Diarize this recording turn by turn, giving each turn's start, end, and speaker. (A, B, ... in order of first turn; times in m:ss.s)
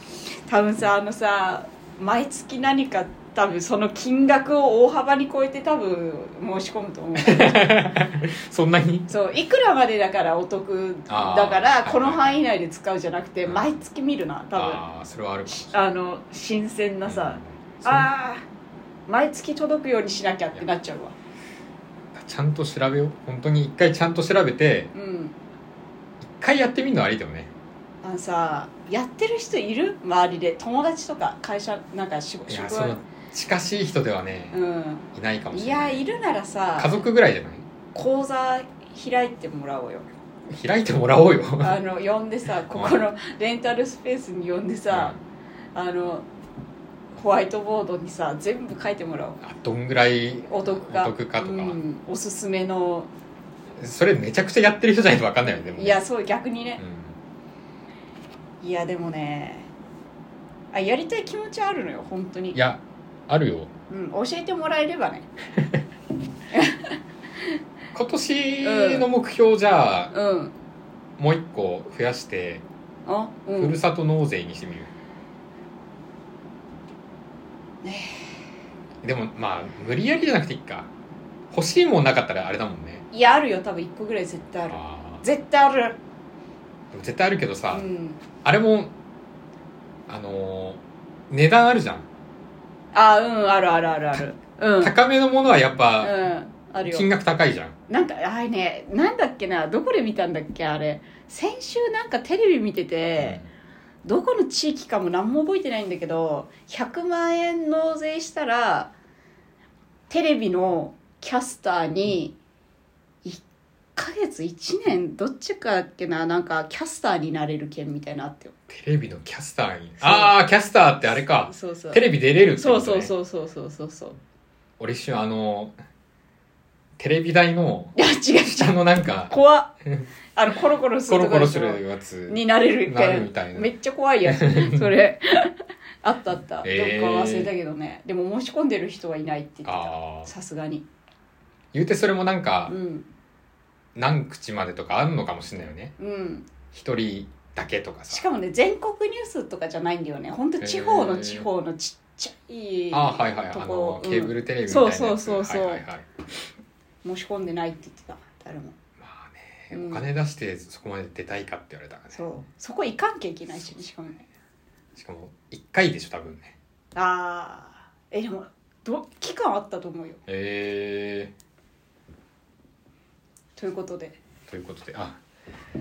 0:00.4-0:07.7 A
0:07.2-0:09.1 B
0:09.1-0:14.8 A
0:11.1-0:12.4 B
0:13.4-0:13.8 B
0:14.5-0:15.7 B
0:15.5-0:18.4 A
0:17.0-0:18.1 B
0:19.1-0:21.1 A
0:22.1-0:24.9 B
0:24.9-0:25.4 A
0:26.2-0:27.5 B
0:28.0-0:33.0 A
0:32.5-0:34.6 B
0:34.5-0:37.0 A
0:35.1-0:36.0 B
0:36.8-0:37.6 B
0:37.9-0:40.1 A
0:40.5-0:41.8 B
0:41.6-0:45.2 A
0:42.7-0:43.0 B
0:44.9-0:45.2 B
0:45.7-0:46.3 A
0:47.1-0:49.4 A
0:49.4-0:51.8 B
0:50.5-0:53.1 A
0:53.8-0:56.0 B
0:55.8-0:56.8 A
0:56.8-0:57.2 B
0:58.6-0:59.7 A
1:00.7-1:02.6 A
1:02.5-1:03.7 B
1:03.9-1:05.3 A
1:06.5-1:07.0 A
1:07.9-1:10.1 B
1:08.6-1:09.1 A
1:10.1-1:10.5 A
1:11.2-1:12.6 B
1:13.0-1:13.8 A
1:13.6-1:14.9 B
1:17.8-1:18.1 A
1:19.0-1:20.9 B
1:21.5-1:23.0 B
1:23.1-1:26.0 A
1:24.7-1:25.2 B
1:26.9-1:27.8 B
1:27.7-1:28.2 A
1:28.4-1:28.9 B
1:30.1-1:32.0 B
1:32.9-1:34.9 A
1:34.8-1:36.2 B
1:36.0-1:37.1 A
1:36.8-1:37.7 B
1:37.9-1:43.4 A
1:43.2-1:43.5 B
1:44.0-1:48.9 A
1:50.1-1:52.3 A
1:54.0-1:58.5 A
1:58.7-2:03.1 B
2:00.0-2:00.3 A
2:01.4-2:04.2 A
2:04.8-2:05.8 B
2:07.0-2:09.3 B
2:08.0-2:09.7 A
2:10.3-2:20.8 A
2:11.1-2:13.7 B
2:14.2-2:15.0 B
2:16.6-2:17.5 B
2:19.6-2:20.3 B
2:21.7-2:22.8 B
2:22.7-2:23.1 A
2:23.9-2:25.9 B
2:26.0-2:26.5 A
2:26.7-2:28.2 B
2:28.1-2:35.8 A
2:30.6-2:31.5 B
2:32.9-2:36.0 B
2:37.0-2:38.7 A
2:39.0-2:42.2 B
2:39.7-2:40.1 A
2:42.1-2:44.2 A
2:43.5-2:43.8 B
2:45.0-2:46.5 B
2:46.9-2:50.2 A
2:50.3-2:51.3 B
2:53.6-2:54.2 A
2:54.5-2:55.2 B